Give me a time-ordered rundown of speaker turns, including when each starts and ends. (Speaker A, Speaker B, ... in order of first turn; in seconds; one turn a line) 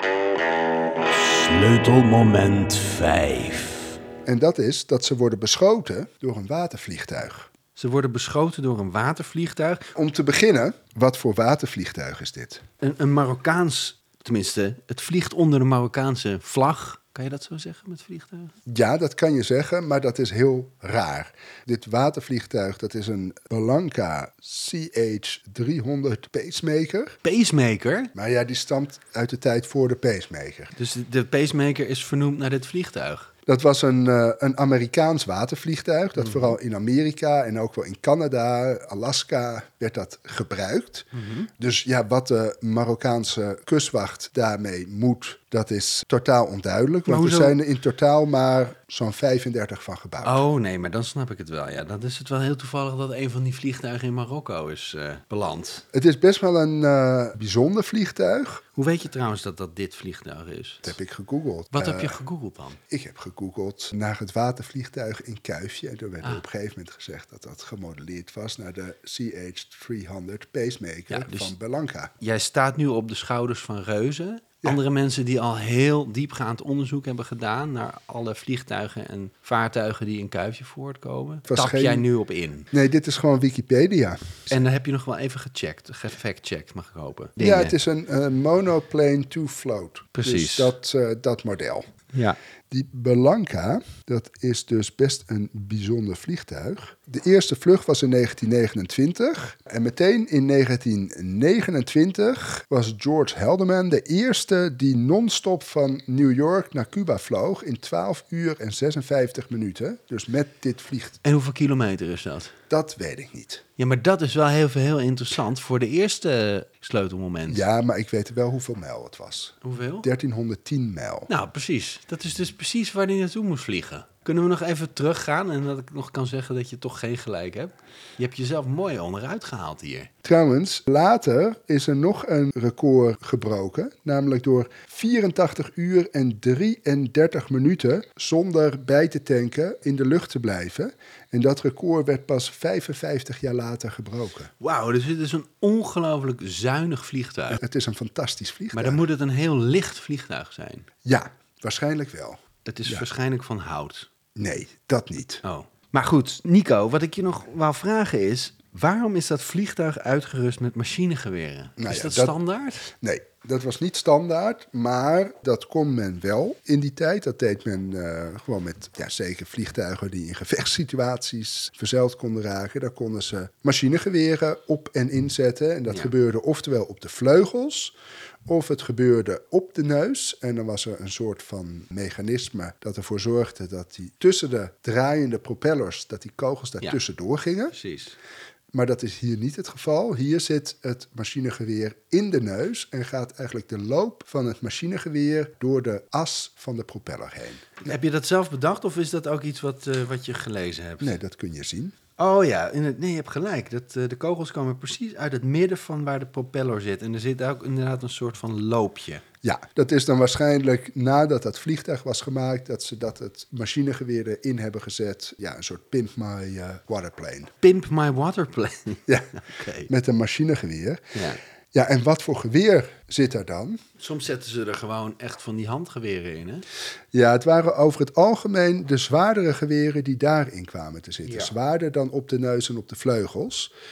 Speaker A: 1.1-4.0
Speaker B: 4.2-7.5
Speaker A: 7.8-9.9
Speaker B: 9.9-12.6
Speaker A: 12.8-18.5
Speaker B: 18.6-27.2
Speaker A: 27.2-28.1
Speaker B: 28.1-30.7
Speaker A: 30.8-33.3
Speaker B: 33.5-50.4
Speaker A: 36.2-36.5
Speaker A: 41.1-41.5
Speaker A: 47.0-47.6
Speaker A: 50.2-55.8
Speaker B: 55.9-58.6
Speaker A: 58.8-61.0
Speaker B: 60.8-62.2
Speaker A: 61.7-62.8
Speaker B: 62.9-72.1
Speaker A: 71.1-71.5
Speaker A: 72.2-82.7
Speaker B: 81.5-82.0
Speaker B: 82.7-84.6
Speaker A: 84.5-87.8
Speaker B: 87.4-91.9
Speaker A: 90.2-90.7
Speaker A: 92.1-92.4
Speaker B: 92.7-111.2
Speaker A: 111.2-112.5
Speaker B: 112.7-113.6
Speaker A: 113.8-117.6
Speaker B: 117.5-121.3
Speaker A: 119.6-120.1
Speaker A: 121.3-130.1
Speaker B: 130.2-144.5
Speaker A: 144.6-147.6
Speaker B: 147.5-149.0
Speaker A: 148.7-150.9
Speaker B: 151.0-153.0
Speaker A: 152.7-154.1
Speaker B: 154.3-155.4
Speaker A: 155.4-162.9
Speaker B: 161.8-162.4
Speaker B: 162.9-177.9
Speaker B: 178.4-187.8
Speaker A: 187.7-188.2
Speaker B: 188.7-197.9
Speaker A: 197.8-201.2
Speaker B: 201.0-201.9
Speaker A: 202.2-209.2
Speaker B: 209.4-217.5
Speaker A: 217.6-219.9
Speaker B: 219.1-219.3
Speaker B: 219.9-221.1
Speaker B: 221.7-223.8
Speaker A: 224.0-226.7
Speaker B: 227.1-233.7
Speaker A: 231.2-231.5